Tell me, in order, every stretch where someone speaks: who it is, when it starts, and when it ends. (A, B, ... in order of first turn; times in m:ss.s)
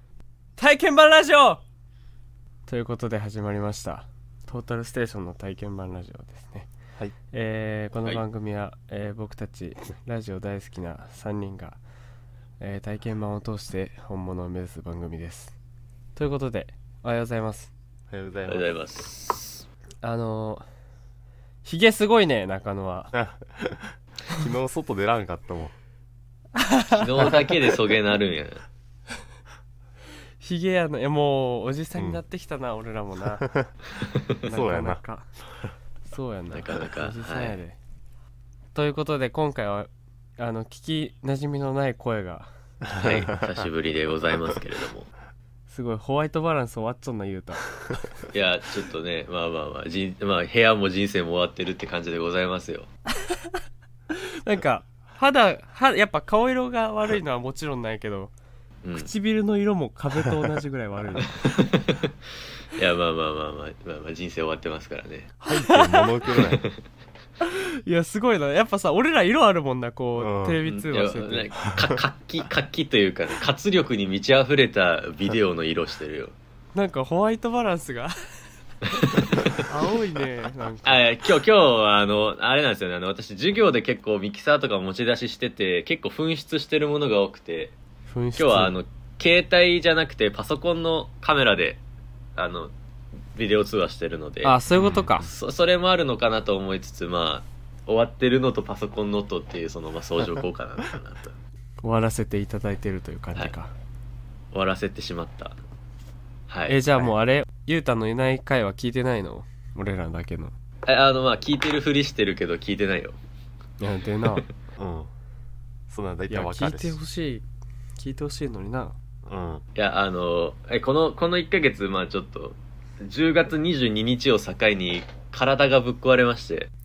0:00.6-0:01.6 A
0:02.7-0:06.7 A
0:07.3-0:11.8 A
0:12.6-0:15.5 A
0:16.2-0:17.7 A
0:18.1-0:18.7 B
0:18.5-0:19.6 C
0:20.0-0:20.6 A
0:21.6-0:23.1 A
0:23.1-0:25.7 B
0:26.6-0:27.5 A
0:26.9-0:28.6 C
0:30.4-0:33.5 A
0:33.4-0:33.7 B
0:34.4-0:35.3 A
0:34.5-0:35.0 B
0:36.1-0:37.8 A
0:36.5-0:37.6 C
0:38.7-0:42.5 A
0:42.8-0:43.3 B
0:43.0-0:45.1 C
0:45.7-0:48.0 A
0:48.3-0:52.9 C
0:53.2-0:53.5 A
0:54.1-0:58.3 A
0:58.8-0:59.1 C
0:58.9-1:01.6 A
1:01.4-1:02.1 C
1:02.7-1:05.3 C
1:05.4-1:06.6 B
1:05.5-1:06.1 A
1:07.4-1:11.5 A
1:10.2-1:10.6 B
1:10.6-1:16.3 C
1:11.7-1:12.0 B
1:16.7-1:18.1 A
1:18.9-1:19.5 C
1:19.6-1:21.0 A
1:20.8-1:27.8 C
1:28.1-1:28.7 A
1:28.4-1:31.8 C
1:32.4-1:32.7 C
1:33.3-1:34.6 C
1:34.4-1:35.3 A
1:34.7-1:35.2 B
1:35.2-1:41.3 C
1:41.8-1:43.7 A
1:44.5-1:45.6 C
1:46.5-1:47.1 C
1:46.7-1:50.5 A
1:50.8-1:53.2 C
1:53.8-1:54.4 A
1:54.8-1:55.1 B
1:55.9-1:57.0 B
1:56.3-1:57.4 A
1:58.0-1:59.0 A
1:59.2-1:59.6 B
1:59.8-2:06.7 C